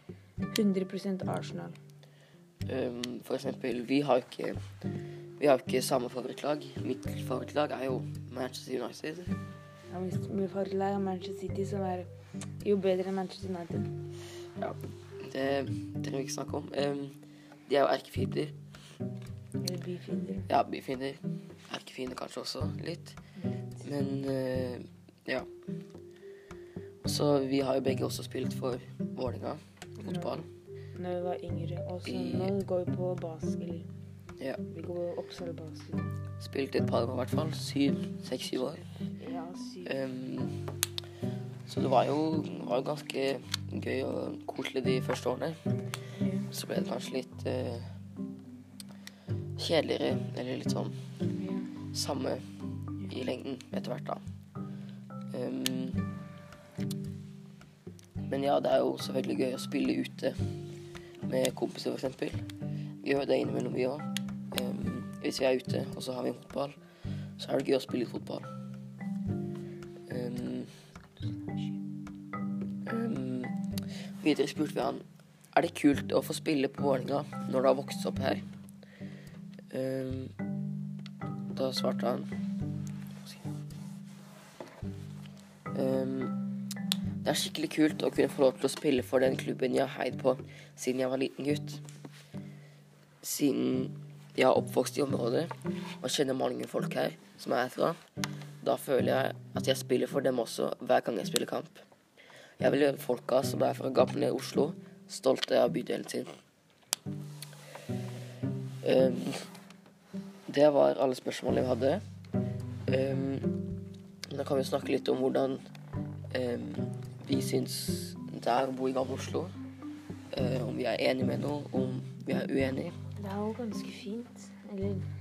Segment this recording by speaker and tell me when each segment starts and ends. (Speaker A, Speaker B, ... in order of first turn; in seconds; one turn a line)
Speaker A: 0.5-1.8
Speaker B: 2.6-4.6
Speaker B: 5.4-9.3
Speaker A: 9.9-12.1
Speaker A: 12.6-13.9
Speaker B: 14.6-18.5
Speaker A: 19.6-20.5
Speaker B: 20.5-23.1
Speaker A: 23.4-23.8
Speaker B: 23.8-25.5
Speaker B: 27.0-30.5
Speaker A: 30.0-30.4
Speaker A: 30.9-33.9
Speaker B: 32.0-32.5
Speaker A: 34.7-36.1
Speaker B: 36.4-38.8
Speaker A: 38.8-40.0
Speaker B: 39.8-40.7
Speaker B: 41.6-45.6
Speaker A: 46.2-46.5
Speaker B: 46.5-48.0
Speaker B: 49.6-51.0
Speaker A: 51.3-51.7
Speaker B: 51.9-52.4
Speaker B: 53.0-54.2
Speaker B: 55.3-56.0
Speaker B: 58.3-60.4
Speaker B: 61.2-62.5
Speaker B: 63.0-66.8
Speaker B: 67.4-68.5
Speaker B: 70.1-70.7
Speaker A: 71.2-71.8
Speaker B: 72.8-73.7
Speaker B: 74.2-78.4
Speaker B: 79.7-80.3
Speaker B: 81.5-82.3
Speaker B: 83.2-83.5
Speaker B: 85.7-86.3
Speaker B: 87.2-91.8
Speaker B: 93.2-98.0
Speaker B: 98.6-101.8
Speaker B: 102.6-106.4
Speaker B: 108.8-109.5
Speaker B: 110.5-112.0
Speaker B: 112.9-113.6
Speaker B: 114.3-115.6
Speaker B: 116.3-119.5
Speaker B: 120.3-122.9
Speaker A: 123.2-125.0